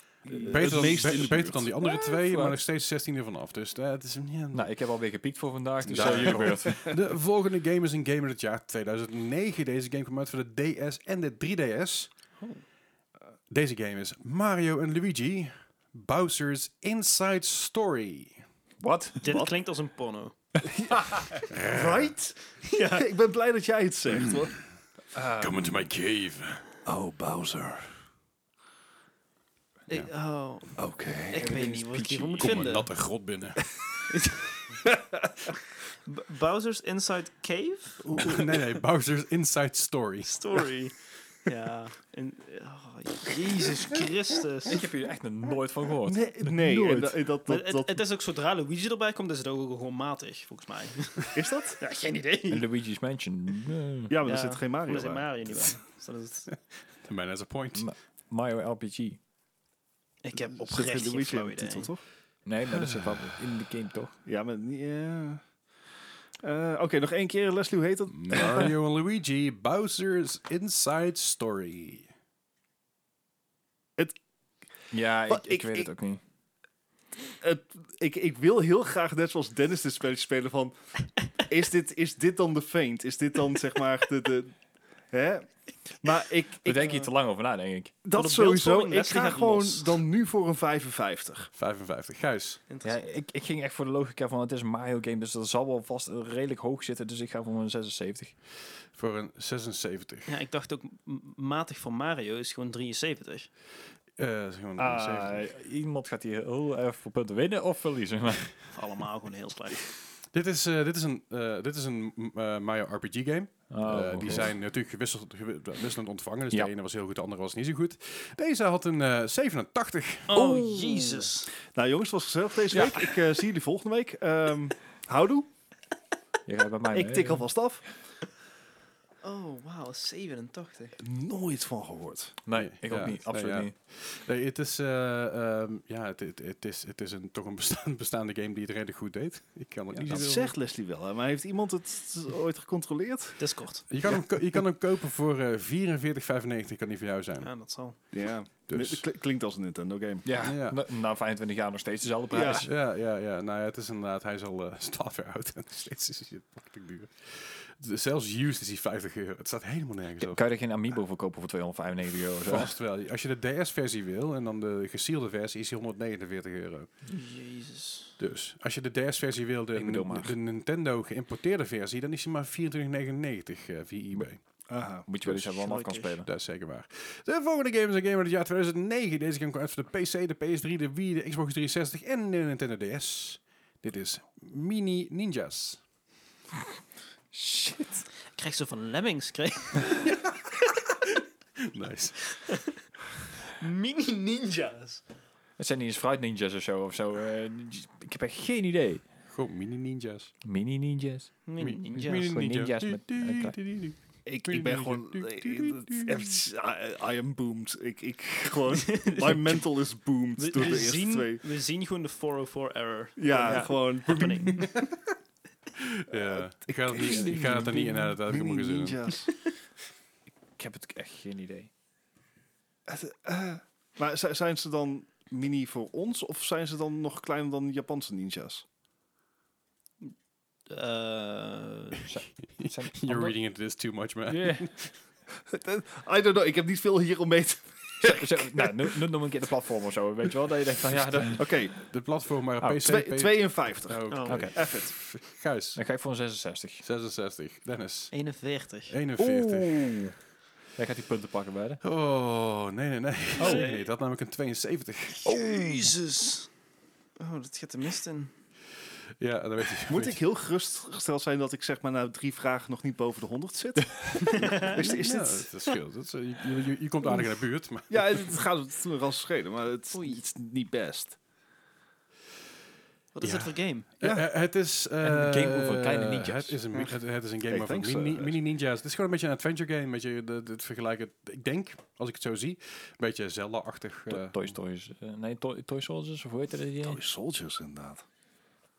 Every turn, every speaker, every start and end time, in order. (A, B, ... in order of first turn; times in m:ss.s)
0:00.3-0:01.2 A
0:00.3-0:01.7 B
0:00.4-0:04.7 C
0:01.8-0:02.6 A
0:04.5-0:06.9 A
0:05.9-0:12.1 C
0:05.9-0:06.6 B
0:13.5-0:18.4 C
0:18.8-0:19.2 A
0:19.2-0:20.3 D
0:19.2-0:19.5 B
0:20.6-0:21.2 B
0:21.5-0:22.1 C
0:21.7-0:24.5 B
0:22.7-0:23.1 D
0:25.1-0:25.7 A
0:25.4-0:26.6 C
0:26.9-0:27.9 B
0:29.9-0:32.9 D
0:30.8-0:31.5 B
0:31.4-0:32.8 A
0:32.4-0:33.7 C
0:34.1-0:34.5 D
0:34.8-0:35.5 B
0:36.1-0:38.4 D
0:38.1-0:38.4 B
0:38.2-0:40.6 C
0:40.2-0:44.9 D
0:44.7-0:47.2 A
0:46.1-0:48.0 B
0:47.4-0:52.7 D
0:51.3-0:51.8 B
0:52.5-0:54.2 A
0:54.1-0:55.7 B
0:54.2-0:56.5 D
0:57.0-0:57.9 C
0:57.7-0:59.2 A
1:00.2-1:01.9 D
1:00.5-1:02.0 B
1:02.4-1:04.1 A
1:04.2-1:05.4 B
1:06.4-1:08.7 B
1:08.1-1:12.1 C
1:14.9-1:16.2 A
1:15.3-1:15.9 B
1:17.3-1:20.7 B
1:21.3-1:24.6 B
1:25.1-1:27.0 B
1:26.6-1:27.9 A
1:28.0-1:31.5 B
1:28.1-1:30.0 D
1:31.6-1:32.6 C
1:32.7-1:33.0 D
1:32.8-1:38.4 A
1:38.9-1:40.4 C
1:40.3-1:43.5 D
1:44.2-1:45.4 C
1:44.8-1:48.5 A
1:48.7-1:49.9 D
1:50.3-2:00.4 C
1:53.7-1:54.5 A
2:00.3-2:01.5 D
2:00.4-2:01.1 B
2:00.4-2:01.2 A
2:01.6-2:05.5 B
2:02.7-2:03.0 A
2:06.4-2:07.5 A
2:06.9-2:07.8 B
2:09.2-2:11.0 D
2:11.0-2:12.4 B
2:12.4-2:13.7 A
2:12.5-2:20.4 C
2:20.0-2:23.4 B
2:23.4-2:23.8 D
2:23.9-2:27.5 C
2:27.4-2:28.0 D
2:28.1-2:30.3 B
2:28.7-2:29.0 C
2:30.2-2:32.7 A
2:30.4-2:30.8 C
2:32.3-2:32.7 B
2:32.4-2:40.4 C
2:40.2-2:42.7 A
2:42.4-2:46.9 C
2:47.1-2:48.1 D
2:48.2-2:54.4 C
2:49.7-2:50.3 A
2:54.7-2:55.1 B
2:55.1-2:56.3 A
2:55.2-2:55.6 C
2:55.6-2:56.1 D
2:56.2-3:05.8 C
3:07.3-3:08.1 A
3:08.4-3:10.1 D
3:11.6-3:12.4 C
3:12.4-3:12.7 D
3:13.5-3:15.0 D
3:15.6-3:19.1 A
3:19.3-3:20.3 C
3:20.4-3:23.6 A
3:21.4-3:22.3 D
3:21.6-3:26.3 C
3:24.3-3:31.4 B
3:28.9-3:29.6 D
3:30.4-3:34.8 D
3:33.2-3:34.8 B
3:33.4-3:33.8 A
3:35.8-3:39.1 C
3:36.4-3:39.3 B
3:37.0-3:38.1 A
3:40.6-3:41.7 A
3:42.9-3:48.6 B
3:50.7-3:52.0 D
3:52.1-3:53.4 A
3:52.6-3:54.9 C
3:54.3-3:54.7 A
3:55.4-3:58.7 B
3:58.0-4:01.5 A
4:01.4-4:01.9 B
4:01.7-4:05.8 C
4:02.6-4:04.9 B
4:04.1-4:04.4 D
4:04.3-4:04.5 A
4:05.7-4:06.8 A
4:06.8-4:08.1 C
4:08.1-4:08.9 D
4:08.9-4:10.0 C
4:09.2-4:10.2 A
4:10.8-4:11.8 A
4:11.8-4:15.4 C
4:13.4-4:13.7 A
4:13.4-4:13.9 D
4:15.2-4:16.5 D
4:15.3-4:15.9 A
4:17.2-4:18.3 D
4:19.2-4:20.2 C
4:19.9-4:25.5 B
4:24.3-4:24.8 D
4:24.7-4:28.4 C
4:27.9-4:31.2 B
4:29.9-4:30.2 D
4:33.2-4:33.8 D
4:33.2-4:44.4 C
4:34.0-4:34.3 B
4:35.0-4:36.6 A
4:37.5-4:38.4 B
4:44.1-4:47.0 A
4:46.8-4:48.0 B